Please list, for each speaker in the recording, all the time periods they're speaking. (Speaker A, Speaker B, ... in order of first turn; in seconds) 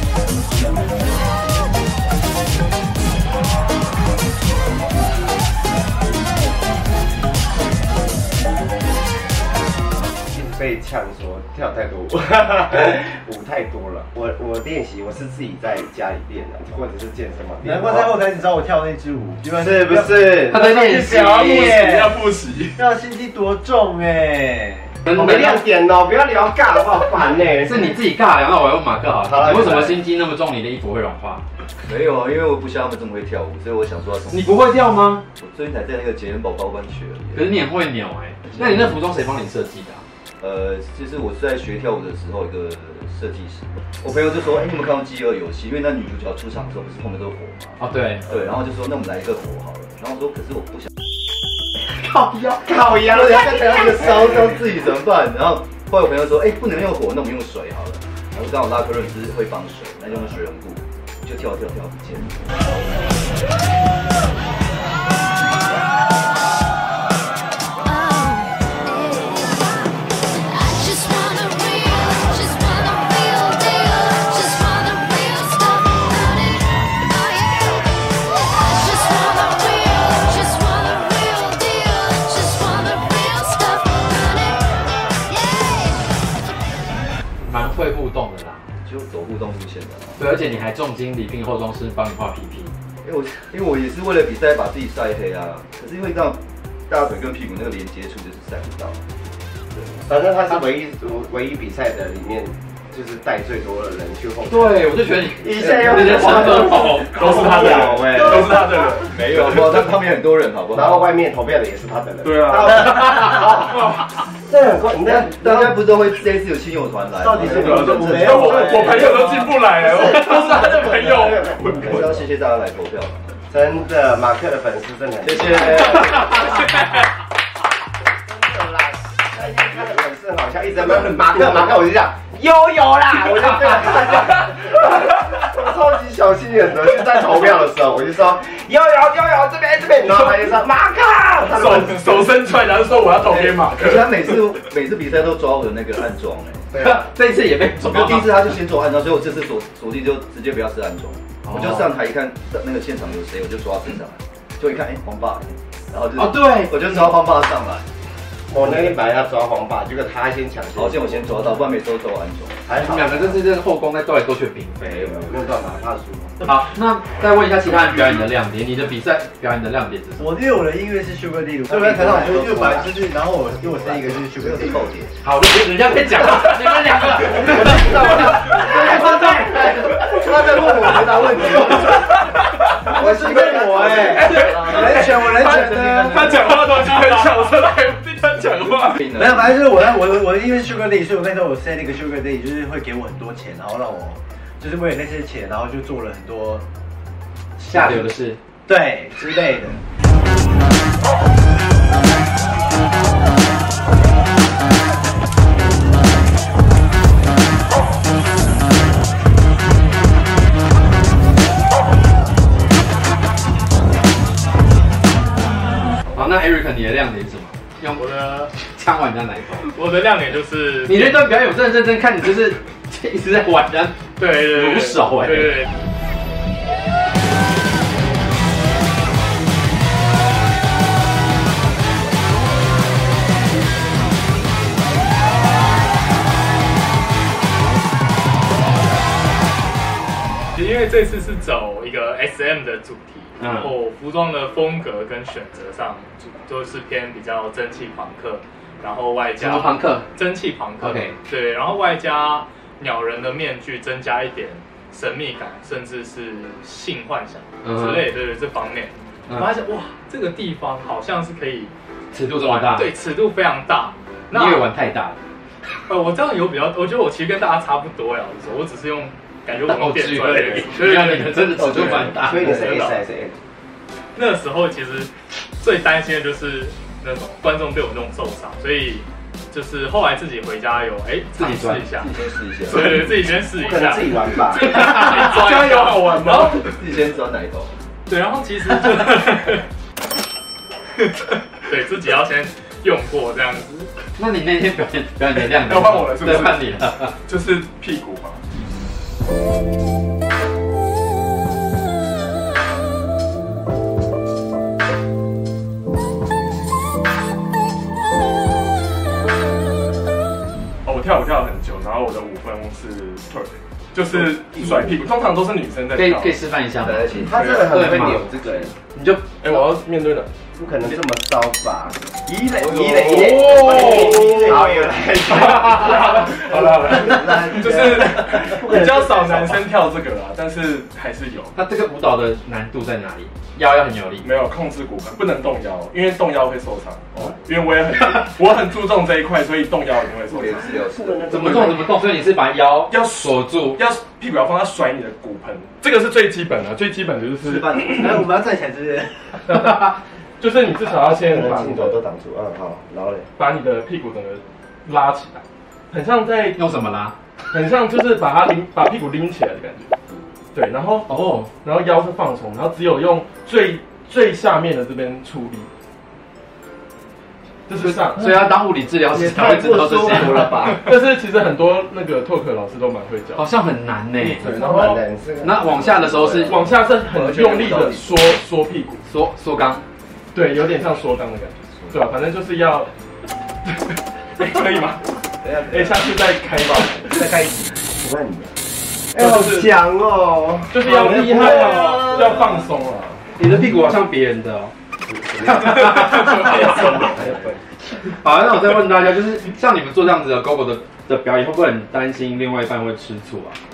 Speaker A: 10.3-18.1, 19.6-20.6, 25.1-27.9, 29.2-30.0, 52.6-54.1, 100.1-108.9, 110.7-113.9, 114.4-115.8, 117.4-122.2, 123.5-126.7, 128.2-142.3, 146.7-147.1, 158.5-161.2, 162.7-163.4, 164.9-166.4, 171.7-172.9, 173.5-174.7, 177.3-181.9, 183.0-184.6, 272.1-273.3, 283.6-284.8, 317.2-318.8, 320.6-329.1, 340.8-341.9, 351.1-353.3, 374.2-376.6, 387.1-388.5, 389.1-392.6, 395.1-397.6
Speaker B: 17.6-22.2, 22.8-25.6, 108.1-108.4, 117.2-118.8, 170.2-174.8, 178.6-179.6, 183.0-186.4, 189.2-196.6, 197.6-198.1, 198.7-199.8, 259.4-259.9, 347.9-349.5
Speaker C: 20.5-21.7, 25.1-25.5, 27.6-31.4, 34.3-35.2, 37.3-40.0, 47.8-48.2, 51.8-52.6, 87.5-88.7, 90.2-92.7, 104.5-107.2, 146.8-148.3, 151.5-151.8, 156.2-157.2, 162.7-165.1, 166.4-170.4, 175.2-178.3, 197.7-198.4, 216.1-219.7, 220.9-225.6, 243.4-243.7, 249.4-250.1, 250.8-251.2, 257.6-258.0, 259.3-259.5, 262.1-262.9, 264.3-265.2, 269.7-272.7, 281.3-281.9, 294.1-297.1, 315.9-319.3, 331.5-334.2, 341.3-343.8, 356.6-357.1, 361.1-361.5, 367.8-370.8, 373.4-374.5, 375.4-376.6, 379.0-379.8, 393.4-394.7, 395.5-396.4, 398.0-403.6
Speaker D: 21.1-22.8, 106.8-109.2, 112.2-113.2, 117.6-122.0, 141.4-144.3, 184.1-189.0, 284.6-286.7, 295.5-298.4, 310.8-316.4, 319.4-320.3, 323.4-331.5, 334.2-340.6, 342.9-348.0, 349.5-352.0, 353.4-356.7, 357.5-359.9, 360.5-365.7, 367.7-368.5, 370.8-373.5, 374.4-375.0, 376.4-379.0, 380.3-382.9, 383.6-387.3, 389.1-389.7, 390.7-393.2
Speaker E: 31.8-34.4, 35.4-37.5, 40.4-50.9, 53.1-62.5, 88.8-90.2, 93.0-99.0, 105.6-106.7, 109.1-111.1, 115.0-118.3, 121.7-123.3, 125.2-126.2, 143.7-146.7, 147.8-157.8, 160.7-162.6, 174.4-175.1, 178.8-179.1, 180.0-182.0, 183.0-185.0, 189.0-189.5, 271.5-272.7, 281.9-283.0, 286.6-287.8, 316.8-317.4, 322.6-324.0, 340.3-341.6, 347.4-348.2, 369.1-370.9, 377.1-378.4, 385.4-386.1
Speaker F: 67.9-69.6, 70.4-78.0, 78.5-84.6
Speaker G: 218.0-218.5, 219.6-221.3, 224.2-225.7, 240.5-258.9, 260.1-261.7, 262.4-264.7, 265.9-271.4, 272.4-273.0, 274.1-282.1, 282.7-286.6, 288.1-289.6, 291.6-293.9